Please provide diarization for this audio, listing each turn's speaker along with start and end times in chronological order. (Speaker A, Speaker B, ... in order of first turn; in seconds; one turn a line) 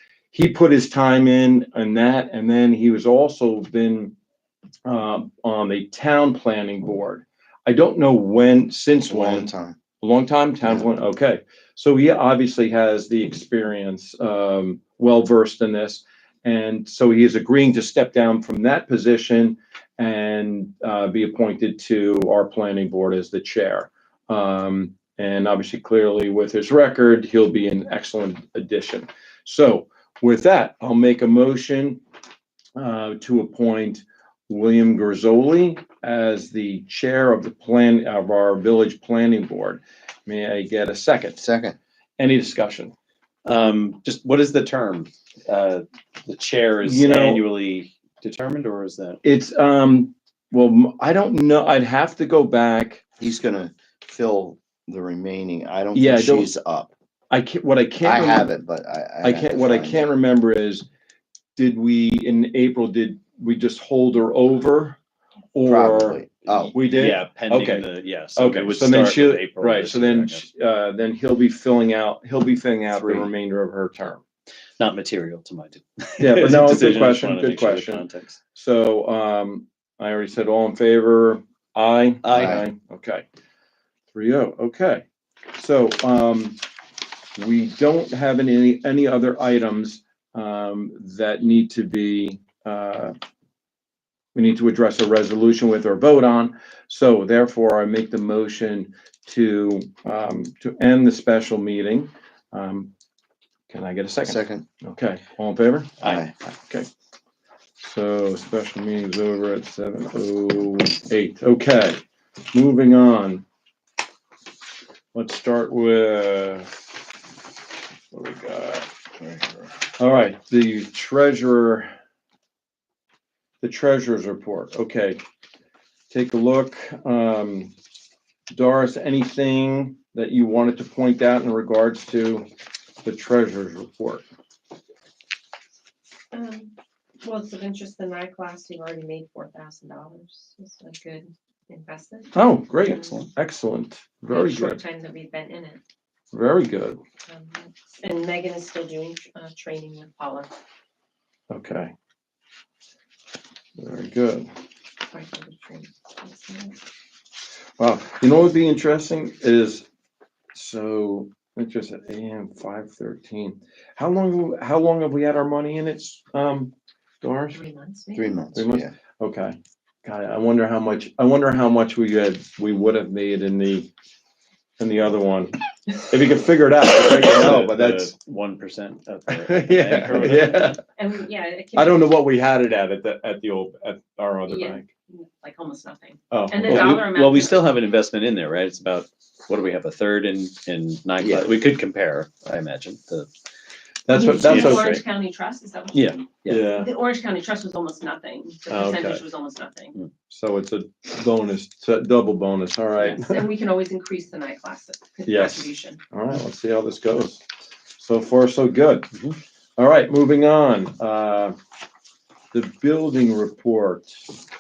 Speaker A: 0.3-4.2
Speaker A: 4.9-32.0
Speaker B: 9.1-9.8
Speaker B: 10.6-10.9
Speaker A: 32.8-41.4
Speaker B: 41.4-41.8
Speaker A: 42.2-42.9
Speaker C: 43.5-49.2
Speaker A: 46.8-47.5
Speaker A: 49.2-53.0
Speaker B: 53.2-56.9
Speaker A: 55.9-56.5
Speaker A: 57.3-58.5
Speaker B: 58.0-60.1
Speaker A: 59.2-60.9
Speaker A: 61.6-65.0
Speaker A: 65.5-66.2
Speaker B: 65.7-66.8
Speaker C: 66.5-70.5
Speaker A: 66.7-74.2
Speaker C: 72.9-73.3
Speaker C: 74.8-78.4
Speaker A: 76.2-83.2
Speaker C: 82.2-82.6
Speaker B: 82.3-82.7
Speaker A: 84.1-85.0
Speaker A: 85.5-86.6
Speaker A: 87.4-93.2
Speaker A: 94.3-102.9
Speaker A: 103.7-106.9
Speaker B: 104.3-104.7
Speaker B: 106.0-106.3
Speaker A: 107.8-112.0
Speaker A: 112.5-113.5
Speaker A: 115.1-116.7
Speaker A: 118.1-118.9
Speaker A: 120.0-121.9
Speaker A: 123.6-125.2
Speaker A: 126.1-127.7
Speaker A: 128.5-132.5
Speaker A: 133.0-134.2
Speaker D: 136.3-143.3
Speaker A: 142.3-144.8
Speaker C: 142.9-143.3
Speaker D: 144.3-145.8
Speaker A: 146.3-147.0
Speaker D: 147.3-150.5
Speaker A: 151.5-151.9
Speaker A: 153.8-154.5
Speaker D: 155.1-156.8
Speaker A: 157.8-159.8
Speaker A: 160.5-167.6
Speaker D: 167.5-168.3
Speaker B: 168.2-168.9
Speaker A: 168.6-173.9
Speaker A: 174.8-178.1
Speaker C: 176.9-180.8
Speaker A: 179.3-180.8
Speaker D: 180.3-182.1
Speaker A: 181.8-184.9
Speaker D: 184.5-187.7
Speaker A: 186.3-187.0
Speaker C: 186.6-193.3
Speaker B: 191.2-191.5
Speaker A: 194.1-195.0
Speaker D: 194.1-199.9
Speaker C: 194.2-195.1
Speaker C: 195.9-196.9
Speaker A: 196.5-196.9
Speaker A: 198.7-199.2
Speaker A: 200.3-203.5
Speaker D: 203.0-206.0
Speaker A: 205.3-207.4
Speaker A: 208.0-209.1
Speaker A: 209.8-211.6
Speaker A: 212.5-214.3